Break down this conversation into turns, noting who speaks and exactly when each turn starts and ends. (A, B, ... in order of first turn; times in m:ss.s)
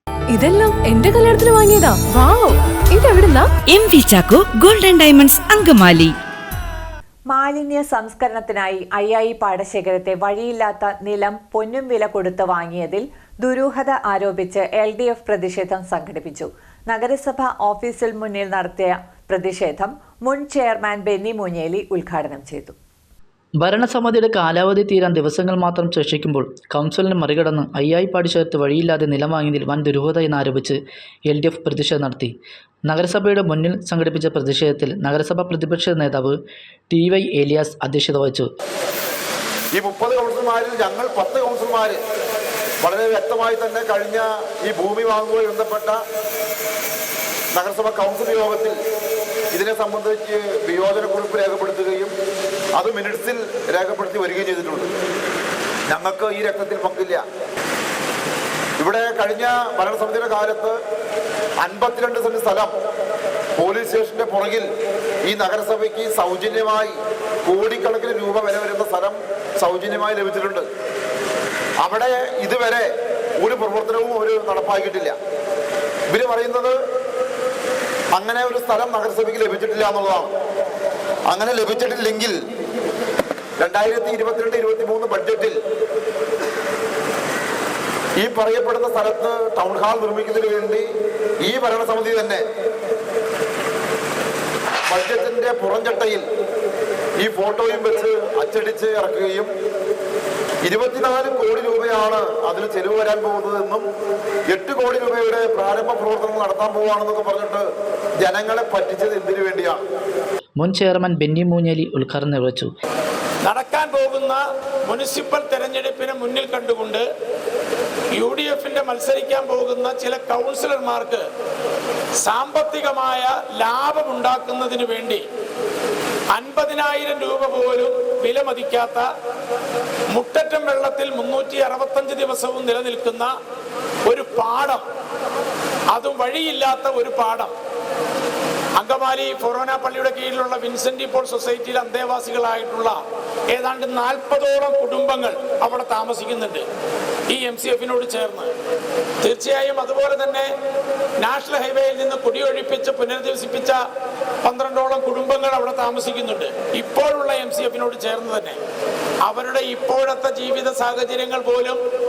0:00.3-0:03.5 A
0:03.7-0:06.1 B
0:07.3-0:22.8 C
0:23.6-0:32.3 D
0:32.9-0:36.4 D
0:36.9-0:38.5 D
0:39.7-0:42.0 E
0:42.8-0:46.0 E
0:47.5-0:48.8 E
0:49.5-0:52.1 E
0:52.8-0:54.9 E
0:55.9-0:57.2 E
0:58.8-1:00.8 E
1:01.6-1:02.7 E
1:03.6-1:04.6 E
1:05.2-1:10.7 E
1:11.8-1:12.9 E
1:13.4-1:15.1 E
1:16.1-1:16.8 E
1:18.1-1:20.3 E
1:21.3-1:22.4 E
1:23.6-1:25.6 E
1:28.2-1:30.9 E
1:31.4-1:32.4 E
1:34.9-1:36.2 E
1:37.2-1:39.5 E
1:40.6-1:43.9 E
1:44.5-1:47.7 E
1:48.2-1:49.8 E
1:50.6-1:52.7 D
1:53.4-1:57.1 F
1:58.1-2:01.2 F
2:02.2-2:05.2 F
2:06.3-2:09.1 F
2:10.1-2:13.3 F
2:14.1-2:14.8 F
2:15.9-2:17.5 F
2:18.8-2:23.0 F
2:23.5-2:26.6 F
2:27.3-2:28.5 F
2:29.2-2:30.5 F
2:31.2-2:33.8 F
2:34.4-2:38.6 F
2:39.2-2:41.8 F